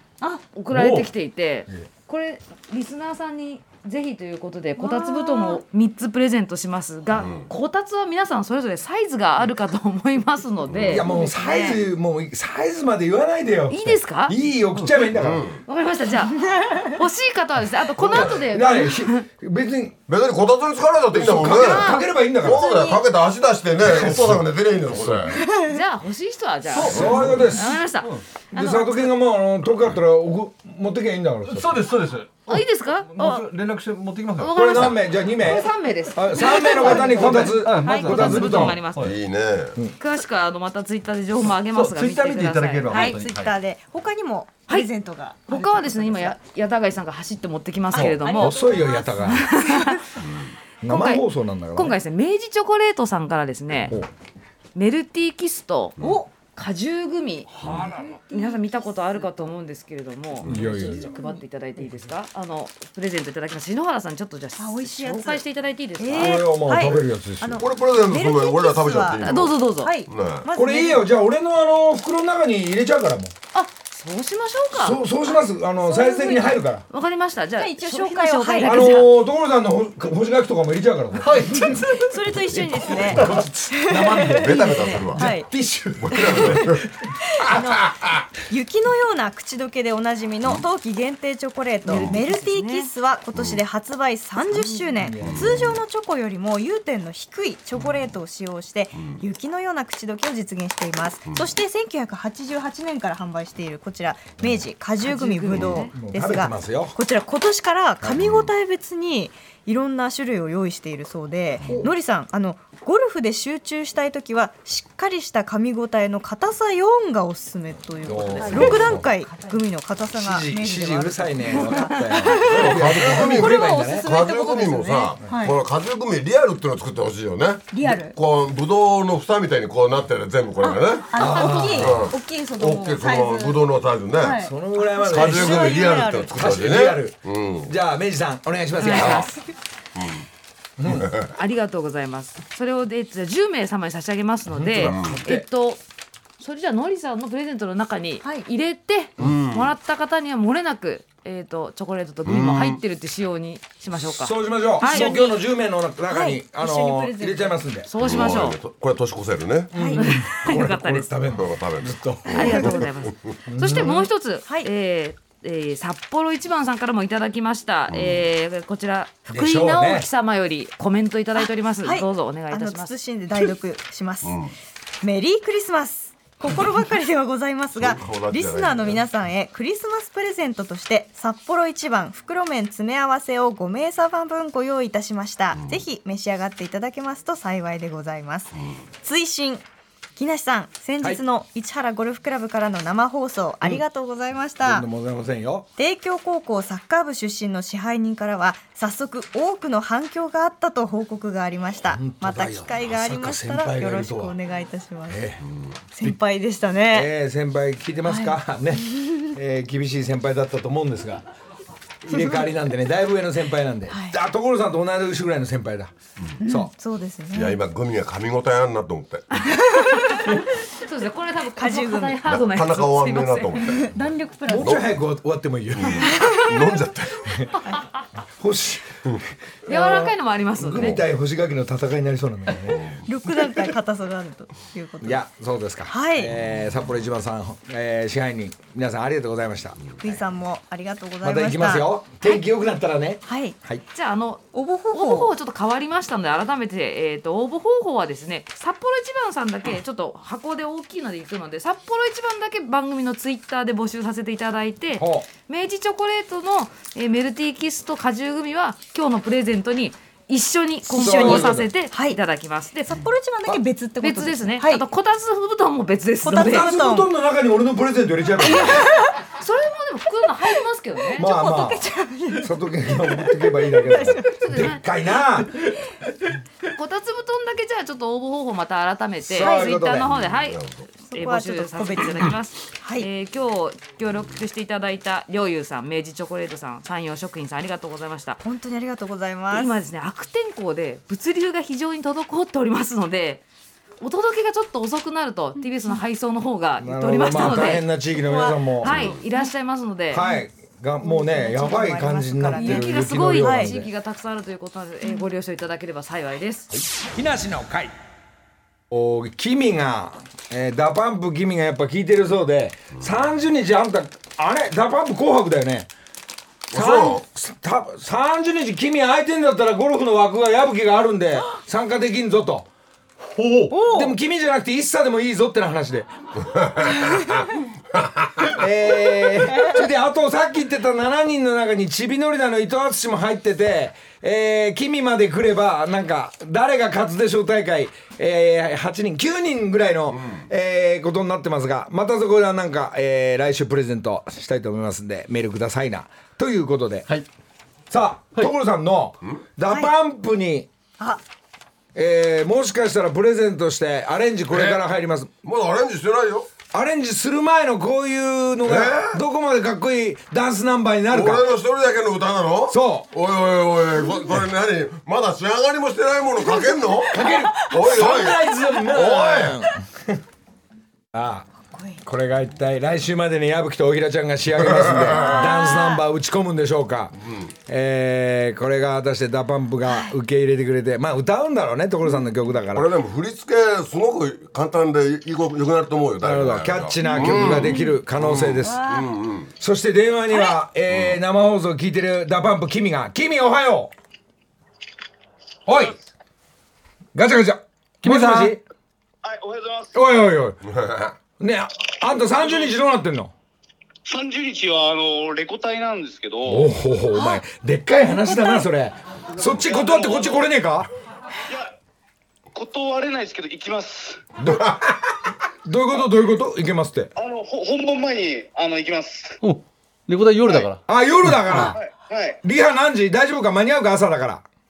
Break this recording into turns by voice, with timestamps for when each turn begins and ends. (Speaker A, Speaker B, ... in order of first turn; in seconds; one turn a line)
Speaker A: 0.5-11.1
Speaker B: 0.7-1.1
Speaker C: 4.8-5.6
Speaker D: 7.2-7.5
Speaker D: 10.7-11.0
Speaker E: 10.9-15.5
Speaker C: 11.0-11.8
Speaker A: 13.7-14.3
Speaker B: 14.8-15.0
Speaker D: 15.1-15.6
Speaker A: 15.6-19.2
Speaker C: 16.3-17.0
Speaker D: 18.1-18.4
Speaker E: 18.1-19.9
Speaker D: 20.1-25.4
Speaker E: 21.1-22.7
Speaker A: 21.4-22.2
Speaker C: 22.4-23.0
Speaker B: 25.0-25.3
Speaker C: 25.4-25.8
Speaker A: 25.6-29.1
Speaker B: 26.7-28.2
Speaker E: 26.8-27.8
Speaker D: 26.9-27.2
Speaker E: 28.5-31.8
Speaker B: 31.5-34.9
Speaker A: 32.5-33.5
Speaker A: 34.4-39.1
Speaker E: 34.5-38.8
Speaker B: 36.4-39.2
Speaker D: 39.0-39.8
Speaker A: 40.0-43.2
Speaker B: 41.5-43.5
Speaker C: 42.9-46.4
Speaker A: 45.5-50.0
Speaker C: 47.9-50.0
Speaker E: 48.3-49.5
Speaker E: 50.8-52.0
Speaker A: 50.9-54.0
Speaker A: 54.7-66.5
Speaker C: 56.0-56.3
Speaker E: 57.6-58.2
Speaker C: 57.9-59.2
Speaker D: 60.4-60.7
Speaker E: 60.5-61.1
Speaker C: 60.9-61.4
Speaker C: 64.6-65.4
Speaker C: 66.0-71.1
Speaker E: 66.1-67.6
Speaker D: 67.6-70.5
Speaker A: 69.2-70.0
Speaker E: 70.5-73.3
Speaker A: 73.5-75.0
Speaker E: 74.7-76.8
Speaker C: 75.9-76.6
Speaker A: 76.1-79.2
Speaker C: 77.6-79.0
Speaker E: 78.6-81.4
Speaker B: 81.1-82.2
Speaker C: 81.9-85.5
Speaker E: 82.5-87.6
Speaker B: 83.1-83.4
Speaker D: 84.3-85.3
Speaker D: 86.0-86.8
Speaker C: 87.3-125.5
Speaker A: 91.9-92.9
Speaker D: 93.3-93.6
Speaker E: 95.0-95.6
Speaker D: 95.2-95.8
Speaker A: 105.1-105.9
Speaker E: 105.2-107.0
Speaker D: 105.5-105.8
Speaker D: 108.0-108.5
Speaker E: 111.7-111.9
Speaker E: 118.0-119.1
Speaker A: 118.4-118.8
Speaker D: 118.5-118.9
Speaker E: 120.1-124.1
Speaker A: 121.6-122.5
Speaker D: 122.5-134.4
Speaker C: 127.7-128.2
Speaker C: 130.6-133.6
Speaker E: 131.1-132.0
Speaker C: 134.2-136.3
Speaker E: 134.4-139.3
Speaker D: 135.0-137.7
Speaker A: 138.8-139.3
Speaker C: 139.0-139.3
Speaker D: 139.9-140.2
Speaker E: 140.8-141.1
Speaker D: 140.8-141.3
Speaker A: 141.2-145.8
Speaker E: 144.5-145.4
Speaker D: 144.8-145.2
Speaker A: 146.4-155.3
Speaker D: 149.2-149.7
Speaker D: 152.2-152.8
Speaker E: 154.0-157.9
Speaker C: 154.8-155.4
Speaker C: 156.1-157.6
Speaker A: 157.9-158.6
Speaker D: 158.0-159.7
Speaker E: 159.7-162.7
Speaker C: 159.7-160.0
Speaker A: 159.9-161.1
Speaker D: 161.3-163.1
Speaker A: 162.3-172.9
Speaker C: 162.4-162.8
Speaker E: 163.5-164.1
Speaker D: 167.9-168.3
Speaker E: 169.3-170.1
Speaker C: 171.3-174.5
Speaker D: 174.2-174.5
Speaker C: 175.0-189.6
Speaker D: 177.7-179.1
Speaker C: 190.2-194.9
Speaker E: 194.6-195.7
Speaker C: 195.8-205.2
Speaker E: 201.9-204.3
Speaker E: 205.1-205.4
Speaker C: 205.9-207.1
Speaker E: 206.9-211.2
Speaker C: 208.1-209.2
Speaker E: 212.0-216.7
Speaker C: 212.1-212.5
Speaker C: 213.9-214.2
Speaker C: 216.4-217.6
Speaker D: 217.3-219.4
Speaker C: 219.4-220.3
Speaker A: 219.9-223.7
Speaker C: 221.5-222.2
Speaker D: 222.2-223.9
Speaker C: 223.6-224.7
Speaker E: 224.5-226.2
Speaker D: 224.6-225.0
Speaker D: 225.7-227.4
Speaker C: 226.1-226.8
Speaker E: 228.4-228.9
Speaker E: 229.7-232.9
Speaker A: 229.7-231.0
Speaker C: 233.1-235.2
Speaker E: 235.0-239.9
Speaker C: 235.9-236.3
Speaker C: 240.0-242.4
Speaker E: 241.2-243.8
Speaker C: 243.2-243.6
Speaker A: 243.9-263.0
Speaker C: 244.5-245.3
Speaker E: 255.0-255.3
Speaker C: 260.9-262.2
Speaker E: 260.9-261.7
Speaker C: 262.9-264.8
Speaker A: 264.0-266.7
Speaker C: 266.2-267.1
Speaker E: 266.3-268.9
Speaker C: 268.4-269.1
Speaker A: 269.4-271.3
Speaker C: 271.1-274.5
Speaker E: 271.2-271.8
Speaker E: 272.4-275.8
Speaker A: 274.2-274.8
Speaker A: 276.6-288.4
Speaker E: 279.2-280.1
Speaker C: 279.4-279.7
Speaker D: 280.1-280.8
Speaker C: 281.1-283.1
Speaker C: 288.4-289.8
Speaker A: 289.5-293.4
Speaker A: 294.0-297.9
Speaker E: 296.8-299.1
Speaker C: 297.4-298.6
Speaker A: 298.8-300.2
Speaker D: 298.8-299.2
Speaker E: 300.1-303.9
Speaker C: 301.0-303.7
Speaker A: 302.6-306.8
Speaker E: 307.1-307.9
Speaker E: 308.9-315.9
Speaker D: 316.7-317.2
Speaker E: 316.7-322.7
Speaker B: 323.3-323.7
Speaker C: 323.7-324.1
Speaker E: 323.8-326.1
Speaker D: 326.4-327.4
Speaker D: 327.9-328.5
Speaker E: 328.5-347.1
Speaker D: 340.1-340.4
Speaker E: 347.9-350.7
Speaker E: 351.9-355.3
Speaker D: 354.5-354.8
Speaker D: 355.4-356.5
Speaker E: 356.7-361.5
Speaker D: 358.6-359.2
Speaker D: 361.1-369.7
Speaker E: 362.7-363.1
Speaker E: 367.1-370.2
Speaker E: 371.1-371.5
Speaker C: 371.7-372.0
Speaker E: 372.0-382.9
Speaker D: 374.5-375.4
Speaker C: 375.1-376.0
Speaker D: 377.2-377.5
Speaker C: 379.9-380.1
Speaker D: 382.7-389.5
Speaker E: 386.2-388.8
Speaker C: 387.0-387.9
Speaker C: 388.6-389.1
Speaker E: 389.6-393.9
Speaker C: 390.3-390.6
Speaker D: 390.9-391.2
Speaker E: 395.7-395.9
Speaker E: 397.1-398.6
Speaker B: 398.0-398.5
Speaker F: 399.2-400.0
Speaker E: 399.9-400.6
Speaker D: 400.6-401.1
Speaker E: 401.4-403.3
Speaker F: 402.3-402.7
Speaker F: 404.1-406.7
Speaker E: 406.4-410.9
Speaker C: 407.1-407.4
Speaker C: 408.3-408.6
Speaker F: 409.4-410.5
Speaker F: 412.5-414.2
Speaker E: 414.4-415.0
Speaker D: 414.6-414.9
Speaker E: 415.6-417.1
Speaker F: 417.1-419.4
Speaker B: 419.4-421.7
Speaker E: 420.9-421.8
Speaker F: 421.7-422.4
Speaker E: 422.4-424.4